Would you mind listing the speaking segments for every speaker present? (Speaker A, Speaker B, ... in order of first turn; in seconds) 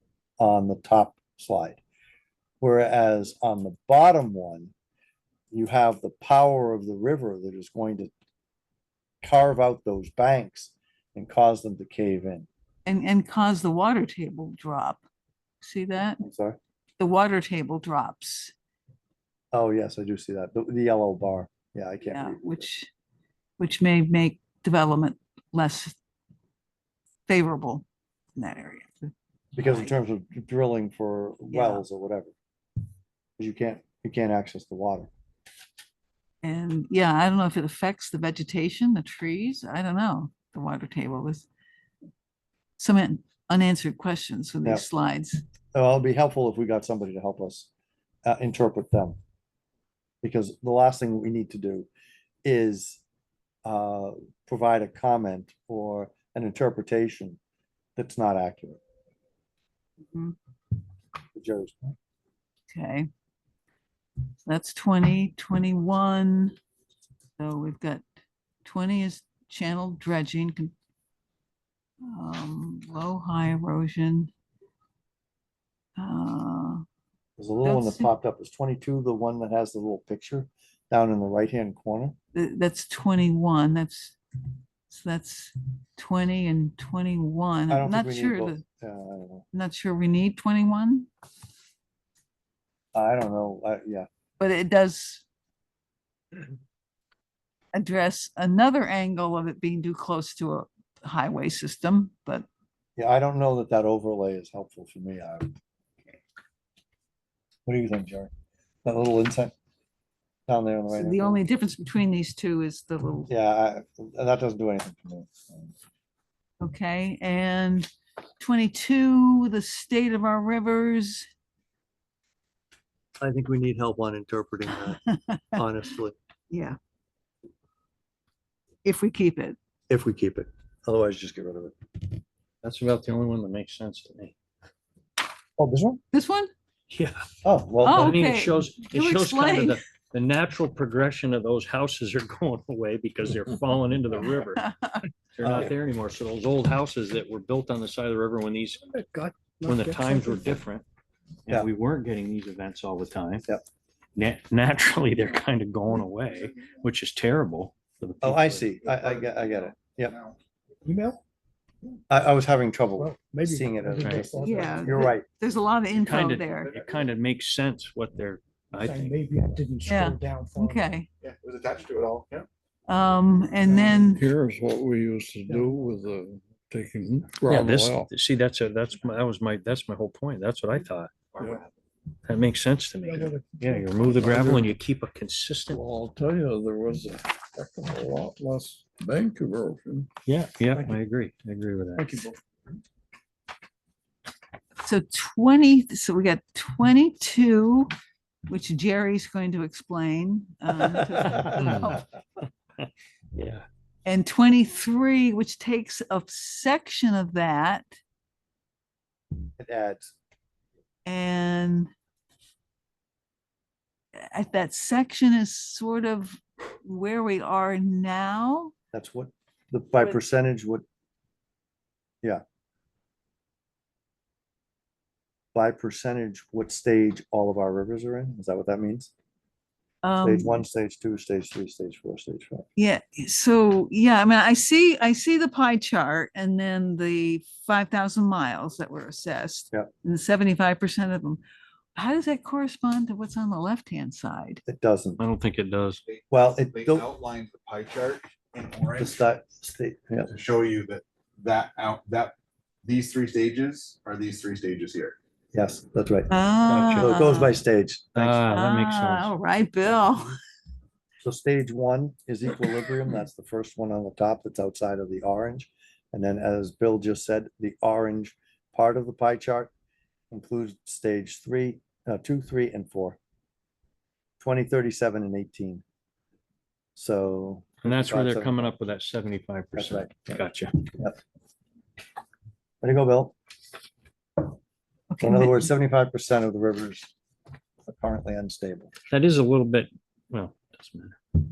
Speaker A: 0.4-1.8, 2.6-4.7, 5.5-8.1, 9.2-12.5, 16.2-16.6, 19.5-22.6, 29.6-32.3, 33.4-35.1, 45.7-47.7, 48.2-49.2, 50.2-51.9, 52.4-53.0, 53.6-57.4, 58.0-58.8, 61.3-62.0, 77.4-82.1, 87.7-89.4, 92.9-94.1, 103.0-105.5, 107.7-108.3, 108.8-109.5, 110.5-111.4, 113.3-115.8, 123.2-126.2, 129.9-131.8, 135.6-136.0, 137.4-138.2, 145.4-145.7, 158.2-160.2, 162.1-165.2, 201.2-201.6, 209.6-210.1, 218.9-220.8, 225.5-229.1, 230.2-232.7, 244.7-245.2, 246.3-247.1, 249.0-250.3, 255.5-256.3, 256.9-258.5, 261.2-269.7, 270.3-273.2, 274.4-275.8, 276.9-278.8, 279.8-280.4, 282.8-283.4, 285.2-287.1, 287.9-288.9
Speaker B: 12.9-15.0, 15.6-16.2, 17.0-18.5, 22.1-22.9, 23.6-26.0, 27.3-27.8, 28.4-29.9, 31.5-31.8, 36.4-41.5, 42.8-45.4, 62.7-63.1, 64.5-66.5, 67.4-68.0, 68.6-70.7, 72.0-74.3, 76.0-76.8, 77.6-78.1, 82.3-84.2, 84.9-88.6, 89.5-91.1, 94.4-95.2, 97.7-102.5, 110.9-113.3, 116.6-117.9, 118.4-121.2, 125.1-125.6, 126.5-126.8, 128.8-129.6, 136.1-136.5, 137.8-139.8, 144.6-145.0, 164.4-166.8, 169.8-171.1, 172.9-174.2, 194.8-197.9, 198.5-202.0, 204.1-207.8, 211.1-211.9, 214.2-218.7, 230.0-230.7, 232.8-241.4, 242.0-244.6, 256.3-257.6, 258.5-260.4, 285.1-285.7
Speaker C: 132.6-134.3, 136.9-137.3, 138.0-144.7, 145.3-148.8, 149.7-150.8, 151.5-153.5, 154.2-158.7, 166.0-169.2, 177.5-181.1, 182.2-185.8, 190.2-192.1, 201.3-202.0, 202.8-203.7, 245.2-246.0, 256.7-257.2, 258.1-259.3, 277.9-280.9, 289.1-291.2
Speaker D: 148.8-150.6, 160.8-161.2, 163.0-165.2, 168.7-170.9, 173.6-174.0, 183.0-184.1
Speaker E: 158.8-160.4, 166.1-167.0, 171.2-172.5, 181.3-181.7, 246.0-249.2, 250.3-255.2
Speaker F: 174.0-178.1, 184.1-184.7, 185.7-190.1, 191.9-192.3